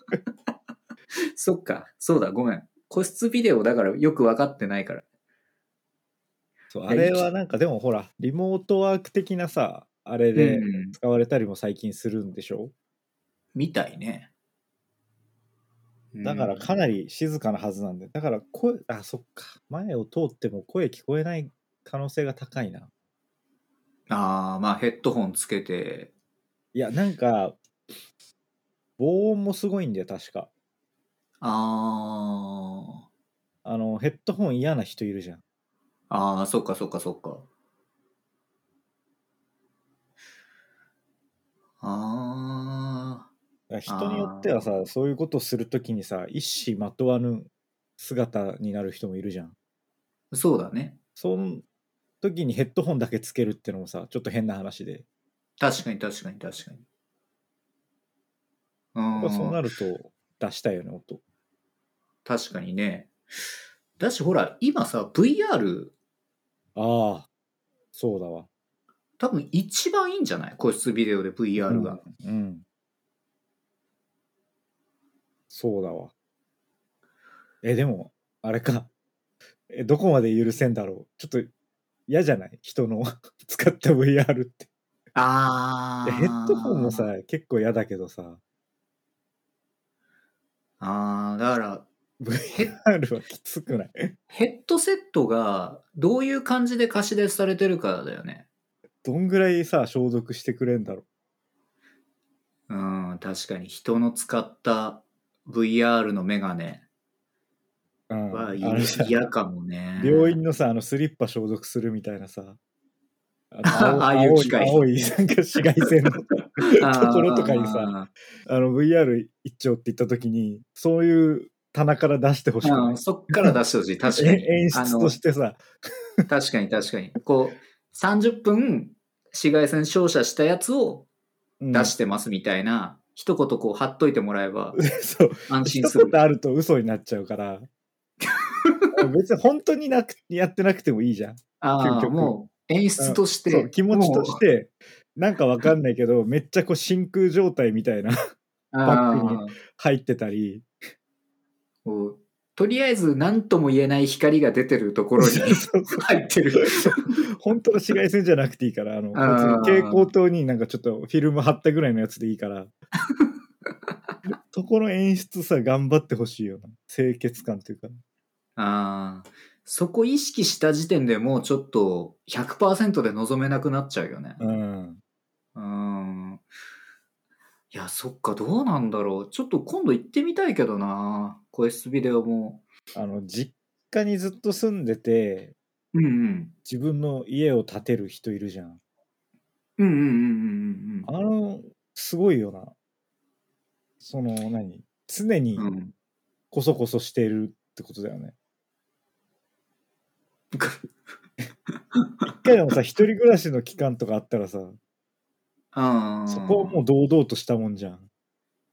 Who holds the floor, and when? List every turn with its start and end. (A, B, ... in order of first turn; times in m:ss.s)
0:01.3-0:05.0 A
0:06.7-0:12.7 B
0:06.9-0:07.3 A
0:10.3-0:11.0 A
0:13.5-0:14.3 A
0:16.1-0:16.7 A
0:16.2-0:22.9 B
0:24.1-0:26.1 A
0:26.7-0:27.6 B
0:29.0-0:30.5 B
0:31.4-0:32.9 A
0:33.6-0:35.4 B
0:36.1-0:37.5 A
0:41.8-0:43.3 A
0:43.7-0:49.5 B
0:43.9-0:44.7 A
0:50.3-0:51.0 A
0:51.2-0:51.6 B
0:52.2-0:55.0 B
0:55.6-0:56.8 A
0:58.9-0:59.6 A
0:59.2-1:01.2 B
1:02.2-1:03.1 A
1:04.0-1:05.9 A
1:06.8-1:07.3 B
1:07.9-1:08.5 B
1:09.2-1:12.0 A
1:11.6-1:12.6 B
1:15.5-1:16.1 B
1:17.6-1:18.9 B
1:19.7-1:21.5 B
1:22.1-1:24.7 B
1:25.1-1:27.1 A
1:26.0-1:28.4 B
1:30.8-1:31.9 A
1:32.2-1:34.1 B
1:34.3-1:38.5 A
1:39.0-1:41.0 B
1:42.7-1:46.8 A
1:48.1-1:49.1 B
1:48.3-1:50.4 A
1:50.0-1:52.6 B
1:53.5-1:57.9 B
1:53.7-1:54.8 A
1:56.7-1:58.1 A
1:58.4-2:03.5 B
2:02.6-2:05.2 A
2:04.1-2:05.6 B
2:06.3-2:11.1 A
2:11.6-2:11.9 B
2:11.7-2:14.8 A
2:14.8-2:17.7 B
2:15.5-2:16.2 A
2:18.3-2:19.0 A
2:18.9-2:22.3 B
2:21.6-2:24.4 A
2:23.0-2:28.2 B
2:28.7-2:29.5 A
2:28.8-2:30.7 B
2:31.8-2:37.2 A
2:35.2-2:36.0 B
2:36.6-2:42.7 B
2:39.1-2:40.1 A
2:44.5-2:47.9 B
2:48.6-2:54.4 A
2:54.4-2:55.0 B
2:55.5-2:56.4 A
2:57.7-3:02.6 A
3:02.9-3:05.5 B
3:05.9-3:06.5 A
3:06.6-3:08.8 B
3:09.8-3:11.1 A
3:11.0-3:12.7 B
3:14.0-3:15.7 B
3:15.6-3:15.9 A
3:16.5-3:18.3 B
3:20.5-3:20.8 A
3:21.9-3:22.4 A
3:22.2-3:24.8 B
3:25.7-3:26.8 A
3:26.3-3:28.1 B